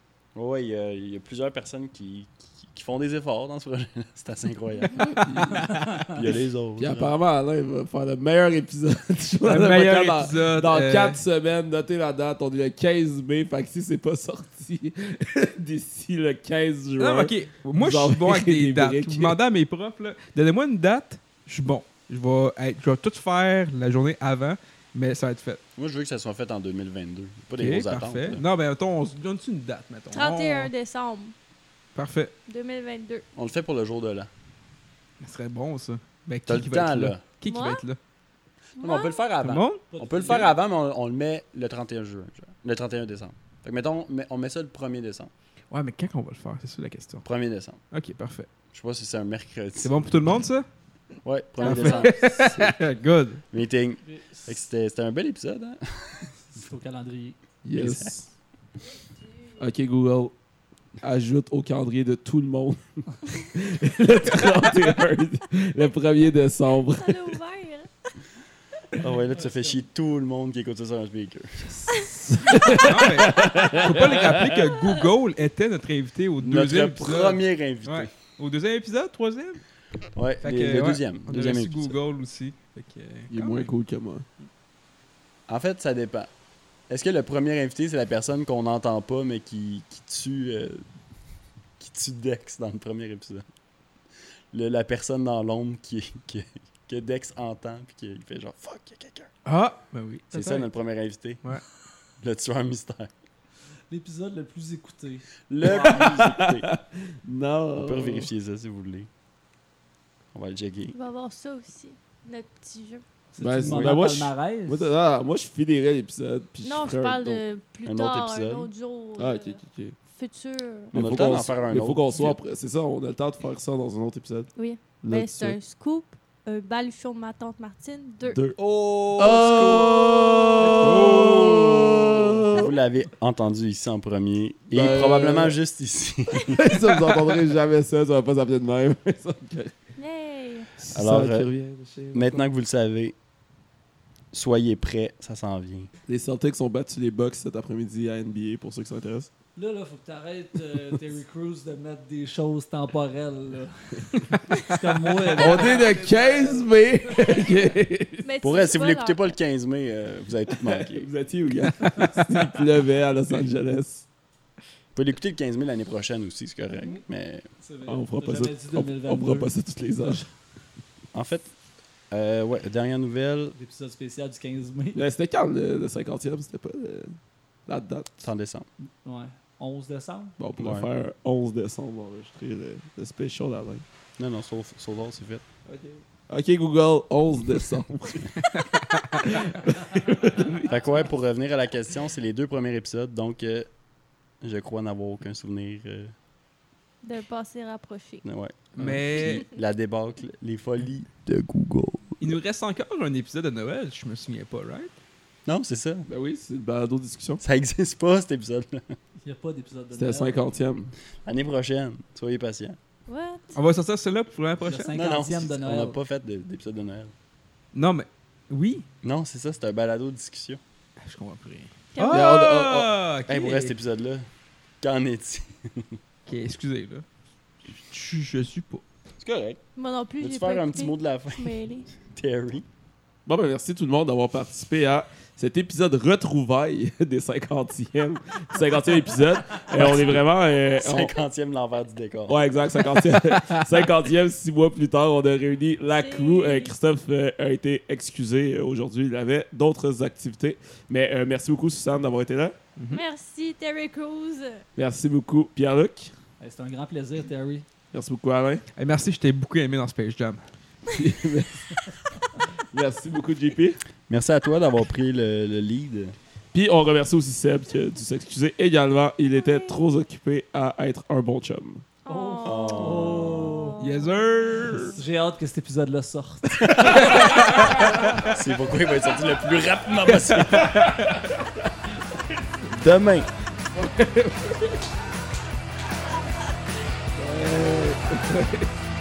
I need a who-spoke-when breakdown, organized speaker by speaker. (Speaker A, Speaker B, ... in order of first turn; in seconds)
Speaker A: 0.3-5.2, 6.1-7.1, 25.8-28.4, 33.3-34.3, 36.5-37.2, 38.8-45.3, 47.2-47.8, 48.7-49.9, 51.2-52.8, 53.5-56.3, 57.7-58.1, 69.0-71.9, 76.4-78.1, 80.2-82.0, 85.5-86.3, 86.9-90.8, 91.8-93.4, 94.5-99.3, 100.3-101.4, 102.2-103.1, 105.5-106.7, 107.8-109.1, 110.3-111.0, 113.6-114.0, 117.8-118.7, 120.9-122.4, 129.2-130.0, 130.8-136.7, 140.9-141.5, 142.1-143.1, 144.3-145.9, 158.4-161.1, 164.9-167.4, 171.1-171.5, 172.1-173.6, 178.2-178.7, 180.6-180.9, 184.2-185.4, 190.7-193.7, 194.4-196.1, 198.2-202.2, 205.4-206.1, 207.4-208.9, 211.2-212.8, 214.9-217.1, 219.0-220.6, 223.3-224.3, 224.8-226.0, 229.2-229.6, 230.2-232.7, 239.8-240.2, 240.8-242.4, 264.1-266.1, 272.4-273.6, 276.6-277.2, 278.3-280.9, 282.7-283.3
Speaker B: 5.2-5.6, 9.4-11.2, 17.0-25.6, 27.6-30.7, 31.9-32.3, 35.2-38.0, 39.4-39.9, 45.7-47.2, 47.9-48.5, 49.8-50.7, 51.6-53.4, 72.8-79.6, 80.4-83.7, 99.5-100.7, 131.2-131.5, 188.5-189.3, 198.8-199.4, 202.2-204.9, 213.5-215.0, 217.7-218.8, 221.0-223.7, 226.3-227.0, 227.7-228.8, 243.3-243.6, 252.8-253.0, 258.8-260.4, 273.8-275.0, 277.2-278.4, 280.3-281.2
Speaker C: 5.2-5.6, 6.8-19.4, 57.6-58.3, 59.6-60.3, 61.0-67.4, 72.0-74.7, 83.3-84.2, 105.7-108.3, 113.4-117.4, 119.2-120.0, 120.9-124.5, 125.0-125.6, 128.2-132.7, 134.7-135.6, 136.6-139.7, 140.8-142.4, 146.1-149.3, 155.3-158.3, 160.5-164.1, 167.8-170.2, 174.9-178.3, 180.4-183.8, 185.7-188.3, 189.2-190.6, 198.8-199.2, 206.1-207.4, 209.9-210.9, 222.1-222.9, 233.2-241.1, 242.3-252.6, 254.8-256.1, 257.9-258.6, 260.9-261.7, 262.7-263.8, 266.5-271.9, 280.4-281.2, 283.7-284.8, 287.1-288.7
Speaker D: 5.5-6.2, 39.9-40.6, 51.7-52.1, 54.0-54.6, 56.5-57.4, 69.0-69.8, 103.9-106.3, 113.3-114.9, 130.6-131.4, 149.6-157.6, 167.6-169.5, 173.6-175.0, 179.0-180.3, 190.7-191.1, 209.2-210.5, 214.6-216.0, 256.4-257.6, 272.1-274.0, 274.9-278.2
Speaker E: 30.1-31.3, 32.5-33.2, 37.4-37.8, 38.8-39.1, 66.9-67.9, 110.9-113.0, 116.6-120.9, 124.5-128.4, 140.0-140.7, 158.2-159.3, 197.0-198.2, 213.1-213.6, 221.9-222.2, 229.8-231.9, 245.9-246.7, 252.9-254.6, 269.3-269.8, 272.1-274.1